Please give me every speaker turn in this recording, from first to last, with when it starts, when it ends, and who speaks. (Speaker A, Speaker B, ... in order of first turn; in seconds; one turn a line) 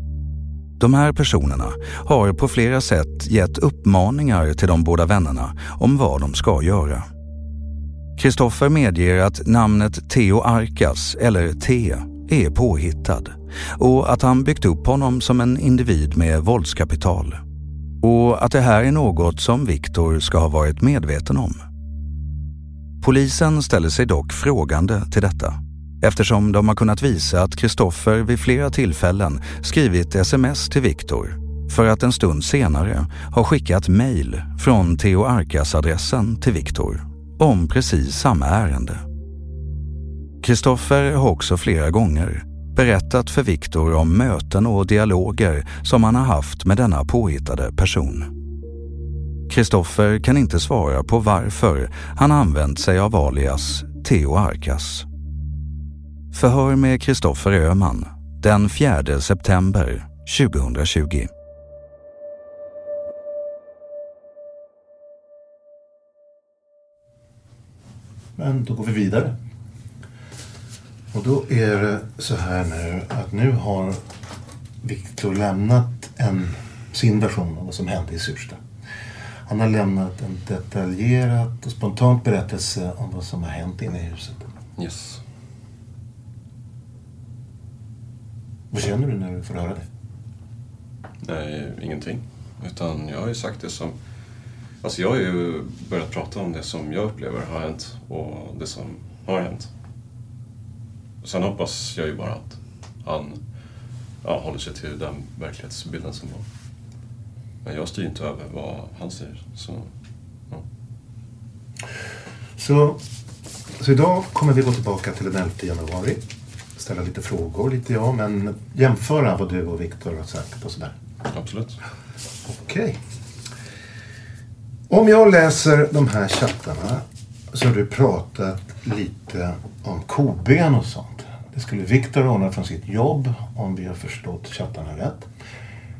Speaker A: 0.8-7.1
Speaker A: 8.2-17.4
Speaker A: 18.0-21.6
Speaker A: 23.0-39.0
Speaker A: 40.4-48.3
Speaker A: 49.5-55.1
Speaker A: 56.3-61.3
Speaker B: 68.3-69.3
Speaker B: 71.1-74.0
Speaker B: 74.8-78.6
Speaker B: 79.5-84.4
Speaker C: 84.8-85.2
Speaker B: 88.7-89.9
Speaker C: 91.2-94.0
Speaker C: 94.8-99.7
Speaker C: 101.2-103.4
Speaker C: 104.2-106.5
Speaker C: 107.6-109.9
Speaker B: 112.6-113.0
Speaker B: 113.8-116.2
Speaker B: 116.8-121.0
Speaker C: 121.3-121.8
Speaker B: 122.5-123.0
Speaker B: 124.9-135.3